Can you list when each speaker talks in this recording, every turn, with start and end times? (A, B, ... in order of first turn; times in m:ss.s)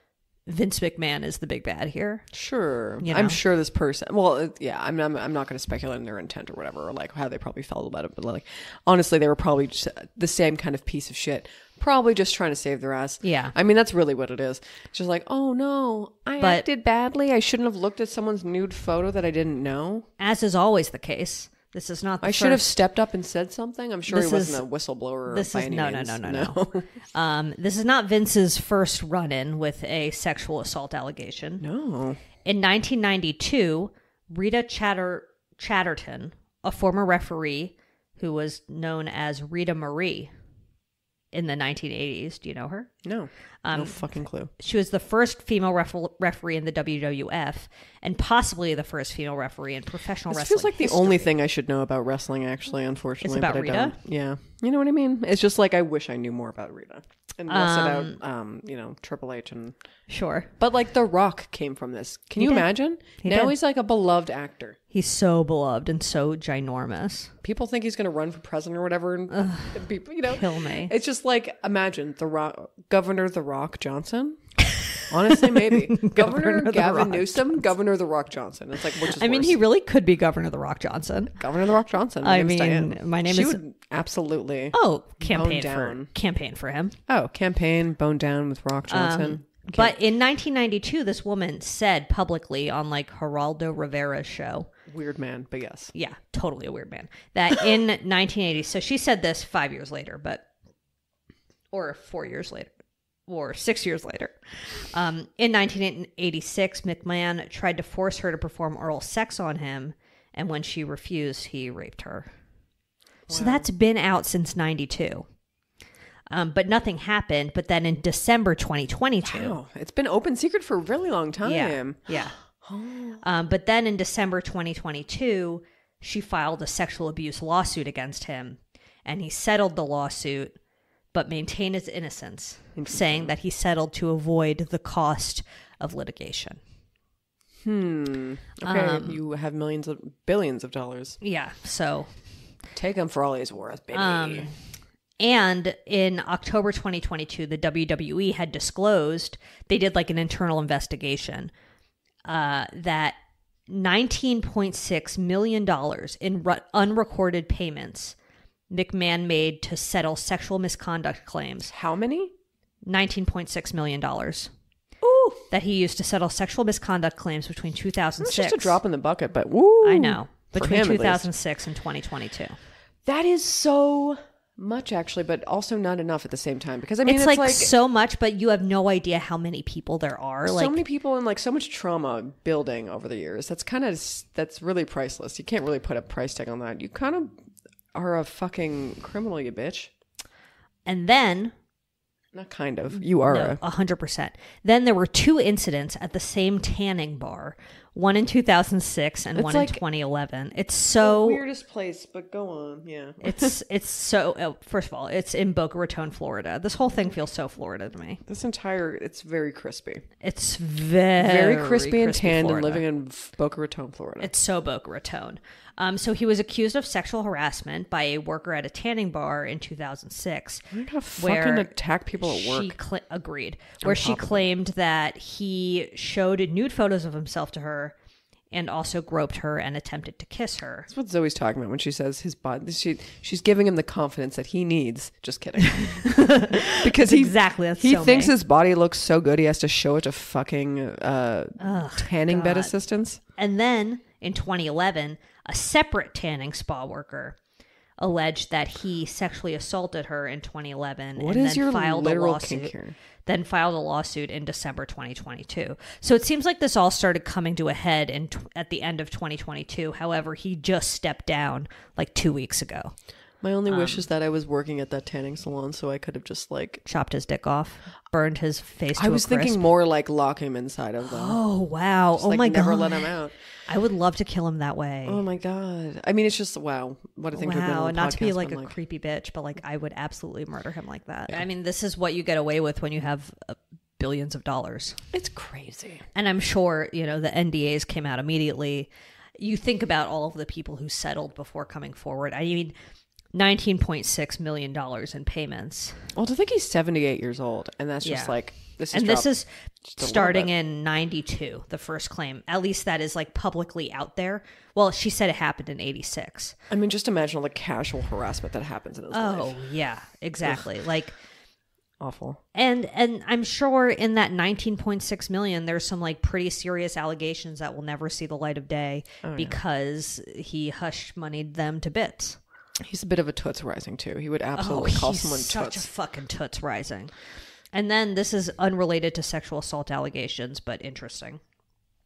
0:00.4-0:02.3 A
0:02.3-0:20.1 B
0:03.0-0:03.4 A
0:13.2-0:13.5 A
0:16.4-0:16.6 A
0:20.2-0:22.7 A
0:22.2-0:26.9 B
0:24.1-0:24.6 A
0:25.3-0:31.6 A
0:31.6-0:32.2 B
0:32.4-0:40.3 A
0:41.3-0:42.9 A
0:43.0-0:44.5 B
0:43.6-0:51.3 A
0:50.3-0:59.8 B
0:53.2-0:54.0 A
0:57.5-0:58.2 A
1:00.1-1:00.5 A
1:00.6-1:04.8 B
1:02.4-1:03.6 A
1:04.9-1:07.3 A
1:07.4-1:14.4 B
1:09.3-1:10.9 A
1:15.1-1:19.6 B
1:15.5-1:17.6 A
1:19.0-1:21.4 A
1:21.4-1:26.1 B
1:22.2-1:23.6 A
1:24.7-1:27.0 A
1:27.1-1:30.0 B
1:28.9-1:34.7 A
1:34.9-1:35.9 B
1:35.9-1:40.5 A
1:41.7-1:42.7 A
1:43.3-1:52.3 A
1:53.3-1:53.7 B
1:53.3-1:55.3 A
1:56.3-1:59.6 A
1:59.2-2:03.2 B
2:01.4-2:02.4 A
2:03.2-2:10.6 A
2:11.1-2:16.6 A
2:12.8-2:13.3 B
2:17.6-2:21.2 B
2:18.6-2:19.2 A
2:21.2-2:22.2 A
2:22.7-2:24.5 B
2:23.9-2:24.6 A
2:25.2-2:31.5 A
2:32.2-2:33.2 A
2:33.7-2:38.2 A
2:38.7-2:41.7 A
2:41.7-2:42.3 B
2:42.8-2:44.5 A
2:45.0-2:45.5 B
2:45.5-2:48.8 A
2:48.2-2:51.3 B
2:49.8-2:52.6 A
2:53.0-2:57.7 B
2:57.0-3:00.8 A
3:00.4-3:07.4 B
3:07.9-3:09.9 B
3:10.8-3:11.5 A
3:12.3-3:13.6 B
3:12.9-3:21.4 A
3:19.3-3:19.8 B
3:21.0-3:23.5 B
3:23.2-3:28.2 A
3:28.2-3:30.0 B
3:30.2-3:32.8 A
3:31.2-3:34.3 B
3:34.2-3:40.6 A
3:40.7-3:42.7 B
3:41.2-3:47.9 A
3:43.8-3:44.4 B
3:48.5-3:50.9 A
3:50.9-4:03.2 B
3:55.7-3:58.3 A
4:01.6-4:02.7 A
4:03.4-4:07.4 A
4:08.0-4:22.9 A
4:11.2-4:13.0 B
4:23.4-4:26.8 B
4:23.7-4:24.0 A
4:26.8-4:29.6 A
4:29.0-4:31.4 B
4:31.0-4:33.1 A
4:32.1-4:33.3 B
4:33.6-4:35.2 A
4:35.1-4:38.8 B
4:37.3-4:45.0 A
4:45.1-4:46.1 B
4:46.1-4:52.7 A
4:53.3-4:56.1 A
4:56.1-4:59.3 B
4:58.0-4:58.3 A
4:58.9-5:06.6 A
4:59.8-5:00.5 B
5:06.7-5:09.6 B
5:09.1-5:11.1 A
5:12.0-5:12.4 B
5:12.5-5:22.4 A
5:19.2-5:19.6 B
5:22.8-5:25.9 B
5:24.6-5:27.1 A
5:27.7-5:31.4 A